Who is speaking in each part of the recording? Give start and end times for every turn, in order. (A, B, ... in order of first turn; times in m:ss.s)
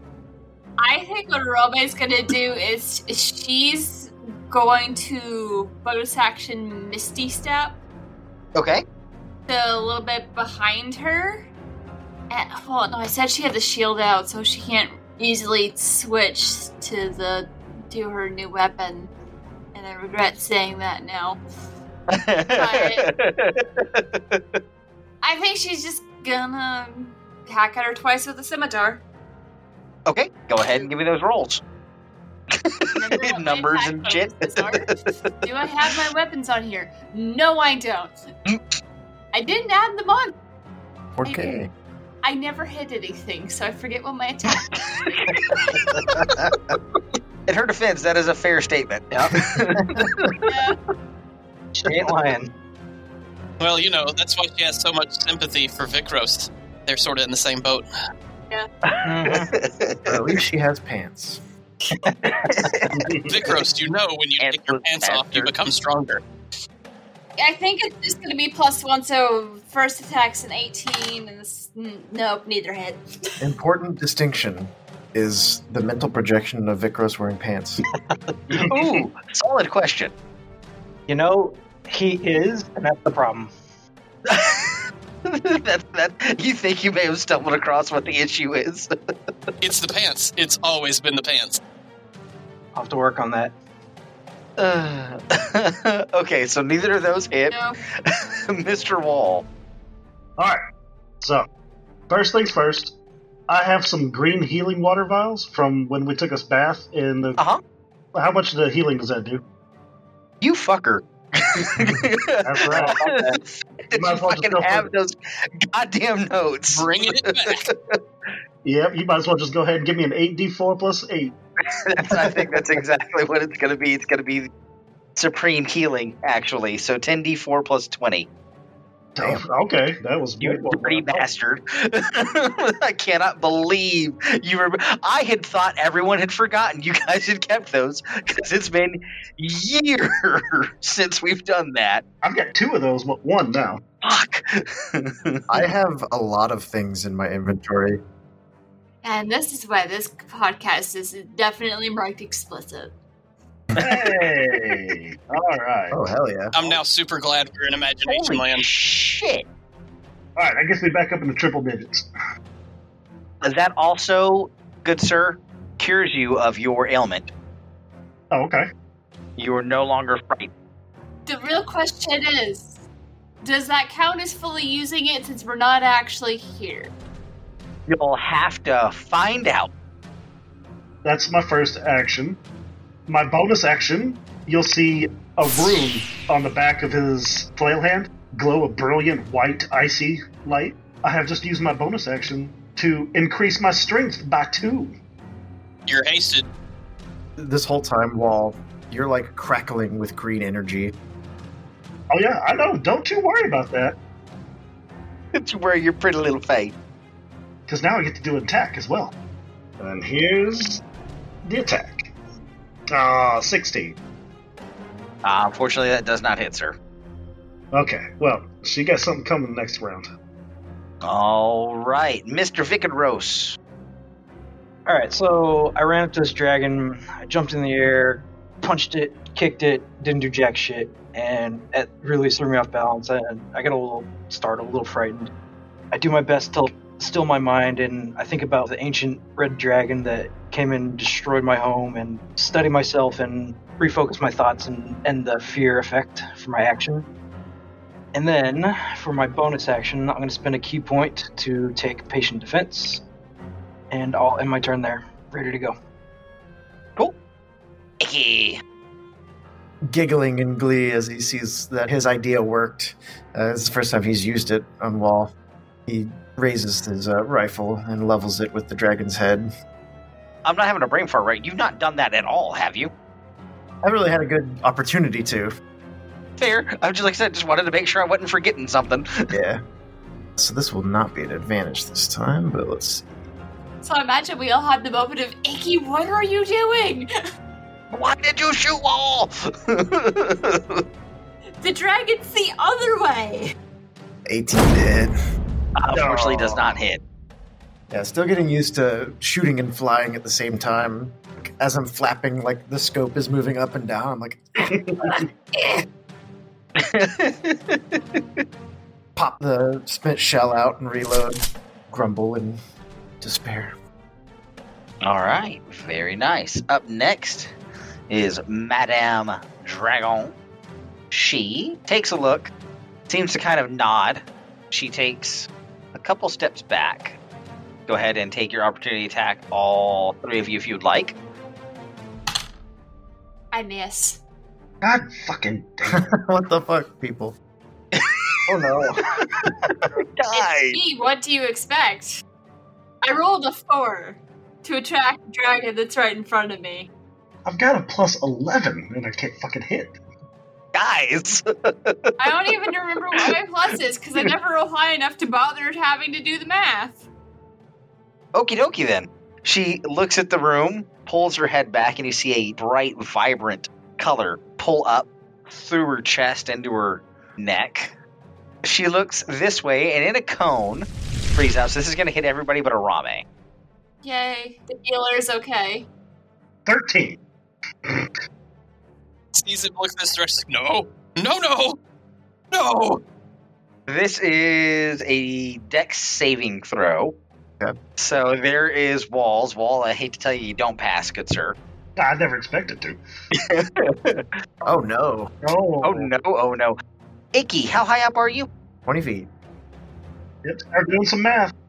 0:00.8-0:07.8 A
0:08.6-0:08.8 B
0:09.5-0:11.4 A
0:12.3-0:19.1 A
0:19.7-0:21.4 A
0:22.1-0:24.4 B
0:22.5-0:23.1 A
0:25.2-0:29.0 A
0:30.1-0:31.6 B
0:32.5-0:34.9 B
0:33.0-0:38.2 A
0:39.3-0:40.3 A
0:41.2-0:41.7 C
0:41.2-0:41.6 A
0:42.2-0:44.7 A
0:44.9-0:46.4 B
0:47.5-0:50.1 B
0:49.1-0:49.4 D
0:50.5-0:50.8 A
0:51.8-0:52.5 D
0:53.6-0:57.8 E
0:58.9-1:00.2 B
0:59.0-0:59.5 D
1:00.1-1:01.4 C
1:02.1-1:02.7 D
1:02.4-1:03.5 B
1:03.0-1:03.4 F
1:03.3-1:06.2 E
1:04.4-1:05.5 B
1:07.4-1:13.0 A
1:13.4-1:17.8 C
1:18.7-1:20.1 B
1:21.1-1:23.5 D
1:24.3-1:28.9 B
1:29.6-1:31.6 E
1:32.8-1:33.6 D
1:34.6-1:39.4 B
1:37.5-1:37.8 A
1:42.1-1:43.0 F
1:43.5-1:47.4 F
1:48.2-1:49.4 F
1:50.4-1:58.0 B
1:52.4-1:53.0 F
1:52.8-1:53.4 D
1:53.9-1:54.9 F
1:56.7-1:57.6 E
1:58.6-2:01.3 F
2:01.9-2:04.5 B
2:05.2-2:08.3 B
2:09.2-2:11.2 F
2:10.4-2:22.0 B
2:22.2-2:23.8 F
2:24.0-2:25.4 B
2:25.5-2:28.0 C
2:29.0-2:32.9 A
2:33.8-2:36.0 F
2:35.9-2:36.6 C
2:36.6-2:38.7 E
2:38.1-2:39.5 B
2:40.4-2:42.0 F
2:43.4-2:47.3 B
2:48.3-2:48.6 F
2:49.4-2:50.5 B
2:51.3-2:52.8 A
2:53.4-2:56.9 A
2:57.9-2:59.7 B
3:01.0-3:02.4 F
3:03.1-3:14.9 F
3:15.9-3:16.5 E
3:17.4-3:20.9 C
3:22.1-3:24.0 F
3:25.3-3:26.7 B
3:27.7-3:29.1 F
3:29.8-3:30.8 F
3:31.4-3:32.1 F
3:32.9-3:34.0 F
3:35.2-3:36.8 B
3:37.7-3:40.1 F
3:41.0-3:43.6 B
3:44.9-3:55.3 D
3:55.9-4:07.1 D
4:08.1-4:13.0 D
4:13.9-4:15.8 D
4:18.0-4:18.6 B
4:19.9-4:25.3 C
4:25.9-4:29.5 C
4:30.4-4:32.9 B
4:33.8-4:35.5 C
4:36.4-4:39.3 B
4:39.3-4:39.6 C
4:40.4-4:43.0 C
4:43.8-4:47.1 A
4:47.9-4:50.8 B
4:51.6-4:53.5 A
4:54.3-4:55.1 C
4:55.8-4:57.0 B
4:55.9-4:56.7 F
4:57.9-5:04.7 C
5:04.6-5:05.2 F
5:06.8-5:08.2 B
5:09.2-5:12.6 C
5:13.2-5:13.7 C
5:15.0-5:17.5 B
5:18.1-5:20.4 B
5:21.1-5:22.5 B
5:23.1-5:27.2 B
5:27.9-5:31.2 B
5:33.5-5:34.2 A
5:34.8-5:36.1 F
5:35.9-5:37.4 C
5:38.0-5:38.2 B
5:38.5-5:39.0 C
5:40.2-5:40.8 B
5:40.3-5:42.2 A
5:43.0-5:46.9 A
5:47.5-5:50.0 F
5:50.8-5:52.5 B
5:52.2-5:57.0 A
5:58.3-6:07.9 B
6:08.6-6:13.2 B
6:14.0-6:15.9 A
6:16.7-6:17.2 F
6:19.4-6:21.8 E
6:22.5-6:23.0 E
6:23.9-6:27.2 B
6:28.0-6:31.6 B
6:32.0-6:33.0 F
6:33.3-6:34.2 B
6:34.6-6:35.3 C
6:35.4-6:36.1 F
6:35.8-6:36.8 B
6:37.3-6:38.5 B
6:38.9-6:39.3 C
6:40.4-6:41.5 F